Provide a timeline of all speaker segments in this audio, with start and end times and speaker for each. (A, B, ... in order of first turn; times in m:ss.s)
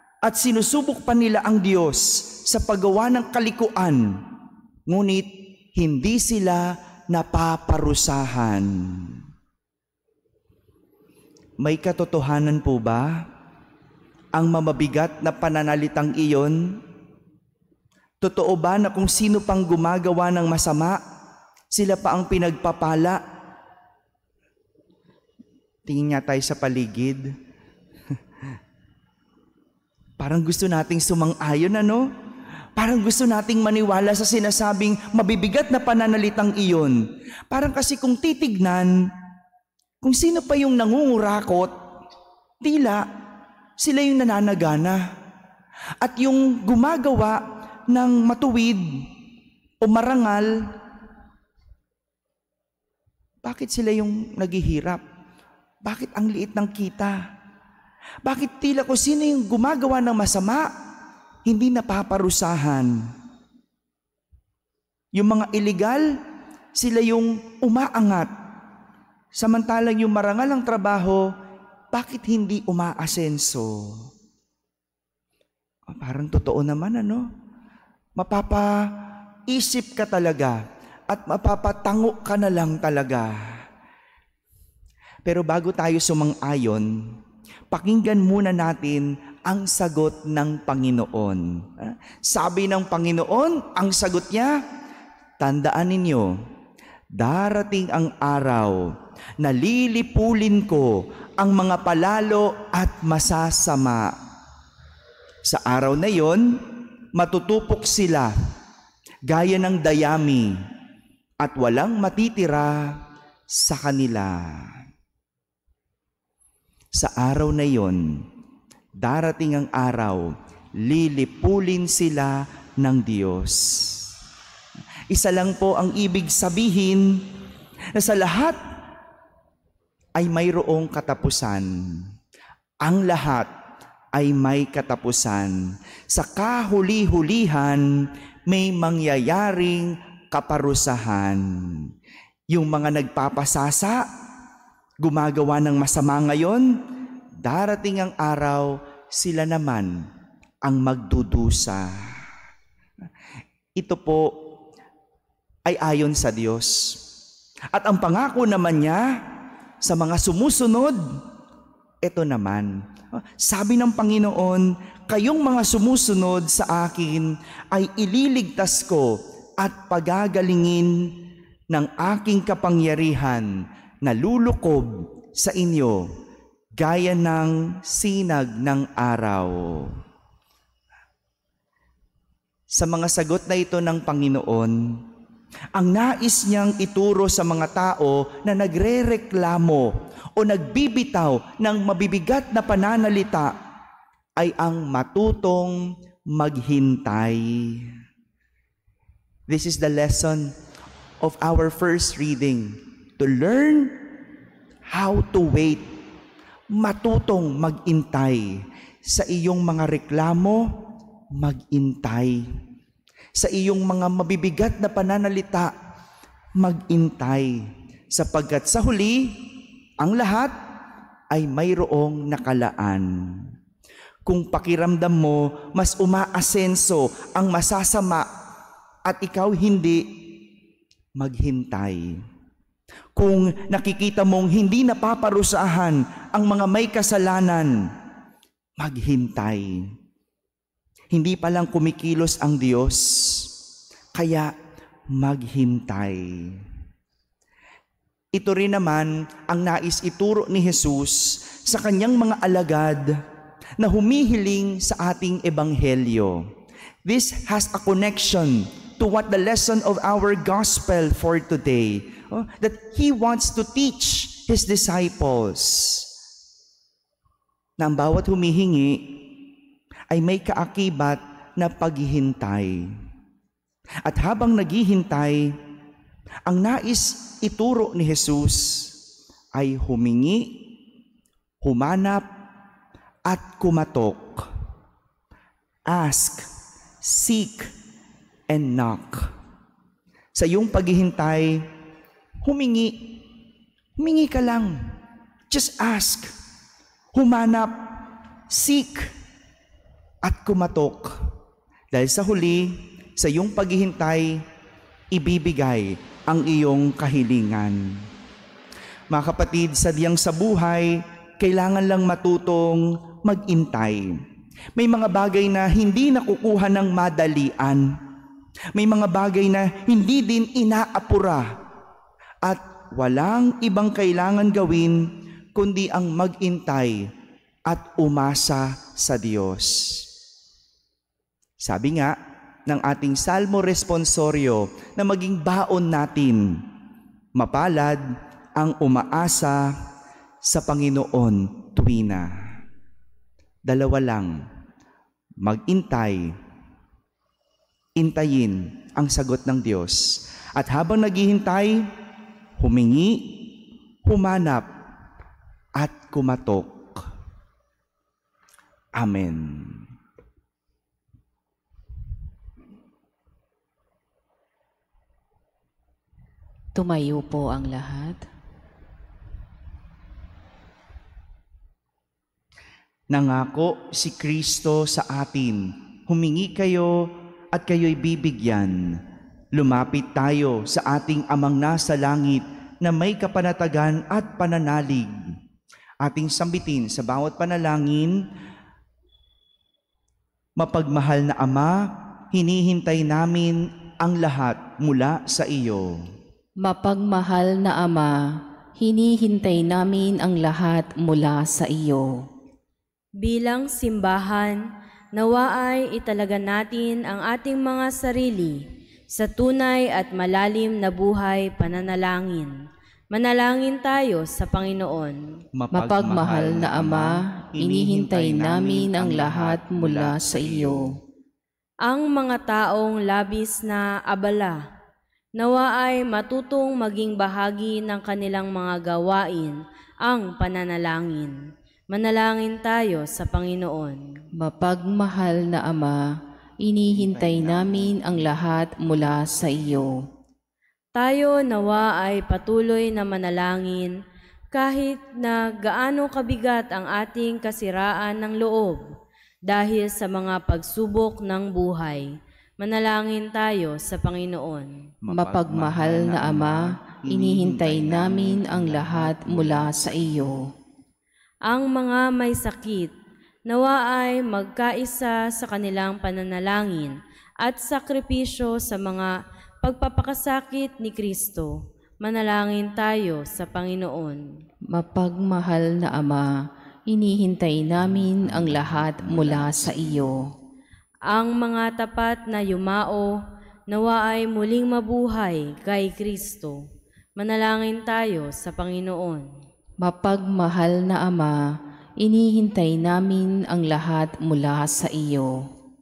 0:00.2-0:04.2 A
0:04.9-0:09.2 A
0:11.6-0:13.2 A
0:14.4-0:16.8 A
0:18.2-0:21.0 A
0:21.7-0:23.2 A
0:25.9-0:27.3 A
0:30.2-0:32.1 A
0:32.8-0:39.0 A
0:40.0-0:41.7 A
0:42.6-0:43.1 A
0:43.8-0:45.0 A
0:46.0-0:49.1 A
0:49.8-0:50.6 A
0:53.4-0:55.0 A
0:55.8-0:57.2 A
0:58.2-1:00.8 A
1:01.5-1:03.0 A
1:05.2-1:06.2 A
1:06.7-1:08.3 A
1:09.4-1:11.3 A
1:11.9-1:14.1 A
1:15.9-1:17.3 A
1:18.2-1:23.4 A
1:25.2-1:27.2 A
1:27.7-1:34.6 A
1:35.4-1:36.4 A
1:37.1-1:44.1 A
1:45.4-1:46.6 A
1:47.2-1:48.4 A
1:49.3-1:50.6 A
1:51.4-1:53.0 A
1:53.5-1:54.7 A
1:57.0-1:58.2 A
1:59.0-2:04.1 A
2:05.1-2:07.2 A
2:07.9-2:08.6 A
2:10.2-2:12.1 A
2:12.8-2:13.5 A
2:14.1-2:15.6 A
2:16.1-2:21.9 A
2:22.5-2:24.1 A
2:25.0-2:26.8 A
2:27.4-2:30.0 A
2:30.6-2:32.2 A
2:33.8-2:34.4 A
2:35.7-2:37.0 A
2:37.7-2:39.2 A
2:39.8-2:41.0 A
2:42.0-2:51.1 A
2:51.7-2:53.5 A
2:54.0-2:56.1 A
2:56.8-3:00.0 A
3:02.7-3:05.0 A
3:05.7-3:13.6 A
3:14.4-3:17.9 A
3:19.5-3:20.6 A
3:21.2-3:24.0 A
3:24.9-3:25.9 A
3:26.7-3:28.5 A
3:29.1-3:30.7 A
3:31.4-3:32.4 A
3:33.4-3:35.7 A
3:36.6-3:37.6 A
3:38.1-3:39.5 A
3:40.0-3:40.6 A
3:41.3-3:43.5 A
3:44.3-3:48.3 A
3:49.1-3:50.1 A
3:51.2-3:52.1 A
3:53.2-3:57.8 A
3:58.8-3:59.8 A
4:01.1-4:03.5 A
4:04.1-4:04.5 A
4:05.1-4:06.6 A
4:08.3-4:13.2 A
4:13.8-4:16.5 A
4:17.0-4:26.1 A
4:27.8-4:29.4 A
4:30.1-4:32.9 A
4:34.0-4:35.5 A
4:36.5-4:39.0 A
4:39.6-4:40.7 A
4:41.6-4:42.3 A
4:43.2-4:44.5 A
4:45.9-4:46.5 A
4:47.0-4:47.7 A
4:48.5-4:49.3 A
4:50.3-4:51.6 A
4:52.4-4:53.2 A
4:54.0-4:54.8 A
4:55.5-4:56.3 A
4:57.1-4:59.1 A
5:00.2-5:01.1 A
5:01.9-5:04.4 A
5:05.1-5:08.1 A
5:09.1-5:14.1 A
5:14.8-5:17.9 A
5:18.8-5:21.5 A
5:22.4-5:27.0 A
5:27.7-5:30.1 A
5:31.6-5:32.2 A
5:32.7-5:36.6 A
5:37.4-5:38.0 A
5:38.6-5:39.7 A
5:40.4-5:42.3 A
5:43.7-5:44.4 A
5:45.4-5:46.3 A
5:48.0-5:51.9 A
5:52.6-5:54.7 A
5:55.8-5:57.0 A
5:59.0-5:59.8 A
6:06.8-6:08.2 B
6:13.1-6:19.0 A
6:19.6-6:25.2 A
6:26.0-6:28.2 A
6:30.6-6:36.0 A
6:36.6-6:38.2 B
6:38.8-6:42.2 B
6:43.2-6:52.6 C
6:53.1-6:55.2 C
6:55.6-7:01.0 A
6:55.7-7:00.9 B
7:01.8-7:04.6 C
7:05.4-7:14.1 C
7:14.4-7:16.0 B
7:16.6-7:20.0 B
7:16.9-7:18.3 A
7:21.0-7:24.0 C
7:24.5-7:28.8 C
7:29.5-7:32.1 C
7:32.6-7:34.7 C
7:35.0-7:40.1 A
7:35.1-7:40.4 B
7:41.5-7:42.9 C
7:43.5-7:54.3 C
7:54.7-7:56.3 B
7:56.9-8:00.3 B
7:58.0-8:00.1 A
8:01.1-8:06.6 C
8:07.2-8:09.3 C
8:09.8-8:11.4 B
8:12.0-8:15.4 B